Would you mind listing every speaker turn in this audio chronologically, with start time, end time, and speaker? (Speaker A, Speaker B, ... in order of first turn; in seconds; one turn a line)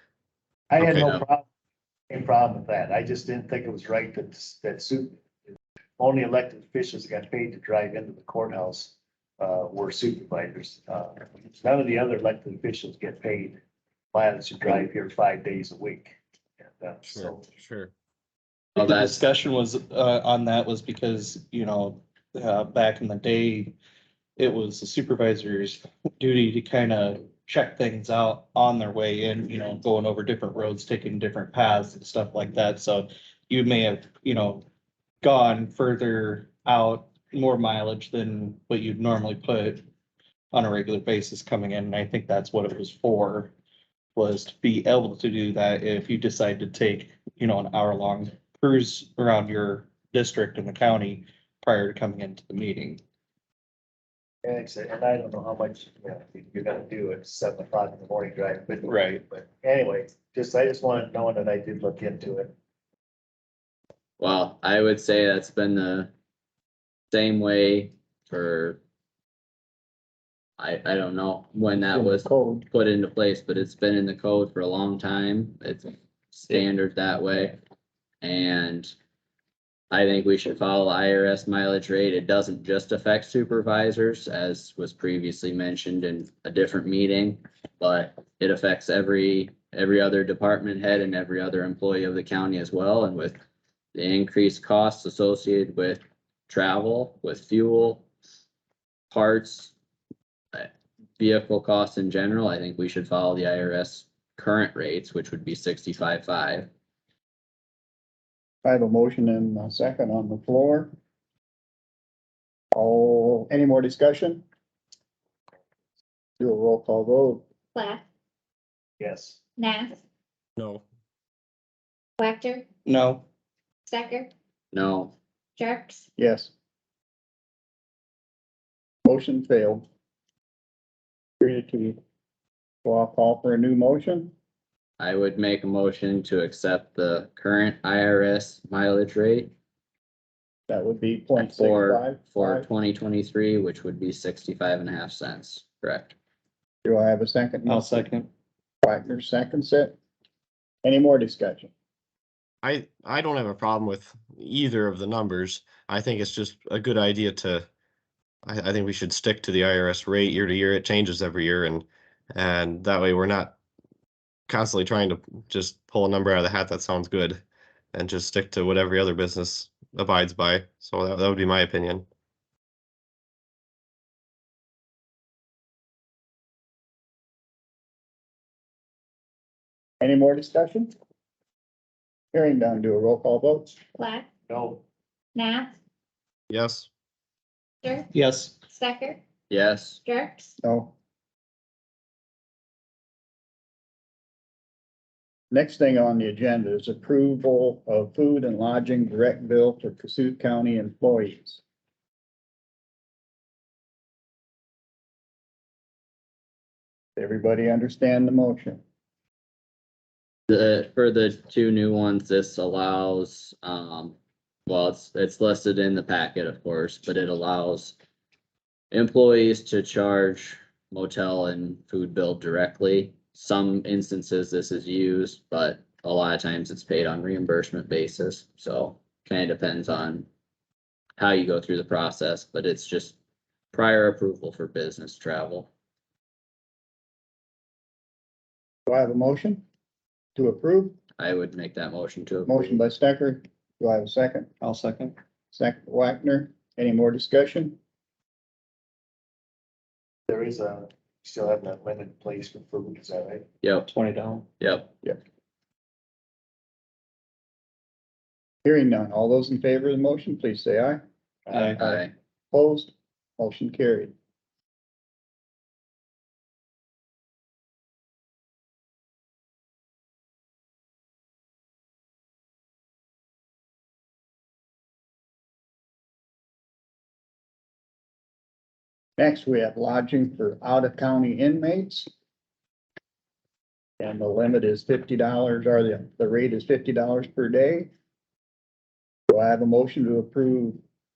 Speaker A: 0.7-1.5
Speaker B: 0.8-1.2
Speaker A: 2.1-13.6
Speaker A: 14.1-17.5
Speaker B: 17.1-17.9
Speaker C: 18.8-23.8
Speaker D: 18.8-19.2
Speaker C: 24.4-34.6
Speaker C: 35.2-39.9
Speaker C: 40.5-43.5
Speaker C: 44.2-53.0
Speaker A: 54.4-62.5
Speaker C: 58.9-59.2
Speaker D: 64.2-66.1
Speaker D: 67.1-68.8
Speaker D: 70.6-77.6
Speaker E: 71.9-72.7
Speaker D: 78.2-78.9
Speaker D: 79.9-93.4
Speaker D: 94.0-98.1
Speaker D: 99.1-99.7
Speaker D: 100.5-106.7
Speaker E: 108.6-110.9
Speaker E: 112.7-114.4
Speaker E: 116.4-117.4
Speaker F: 117.8-118.0
Speaker A: 119.0-119.4
Speaker F: 119.6-120.0
Speaker B: 120.6-120.8
Speaker F: 122.2-122.7
Speaker C: 122.9-123.2
Speaker F: 123.9-124.3
Speaker D: 124.7-125.1
Speaker F: 125.6-126.1
Speaker E: 126.2-126.5
Speaker E: 129.1-129.8
Speaker E: 131.4-132.0
Speaker E: 132.8-134.3
Speaker D: 135.0-139.5
Speaker E: 140.7-142.7
Speaker D: 141.4-146.1
Speaker E: 146.8-148.1
Speaker C: 147.7-148.3
Speaker E: 148.8-150.0
Speaker E: 150.8-151.7
Speaker B: 152.6-157.7
Speaker B: 158.5-163.6
Speaker B: 164.5-167.4
Speaker B: 167.9-172.0
Speaker E: 180.0-180.9
Speaker E: 182.3-183.7
Speaker F: 183.9-184.3
Speaker A: 184.5-184.8
Speaker F: 185.3-185.7
Speaker B: 186.5-186.9
Speaker F: 187.8-188.1
Speaker C: 188.1-188.6
Speaker F: 188.6-189.2
Speaker D: 189.5-190.0
Speaker F: 190.0-190.6
Speaker E: 190.6-190.9
Speaker E: 195.5-201.6
Speaker E: 207.2-208.8
Speaker D: 210.5-214.2
Speaker D: 214.7-218.0
Speaker D: 218.9-230.3
Speaker D: 231.2-233.2
Speaker D: 233.7-235.7
Speaker E: 238.9-239.6
Speaker E: 240.4-241.0
Speaker D: 241.2-242.8
Speaker E: 242.5-244.5
Speaker C: 244.6-245.2
Speaker E: 245.5-247.8
Speaker A: 250.3-253.4
Speaker D: 253.6-253.9
Speaker C: 253.9-254.5
Speaker D: 254.6-254.9
Speaker E: 258.6-261.0
Speaker C: 261.5-261.9
Speaker D: 261.8-262.1
Speaker E: 262.5-264.1
Speaker E: 279.2-282.1
Speaker E: 284.0-287.9
Speaker E: 289.3-290.8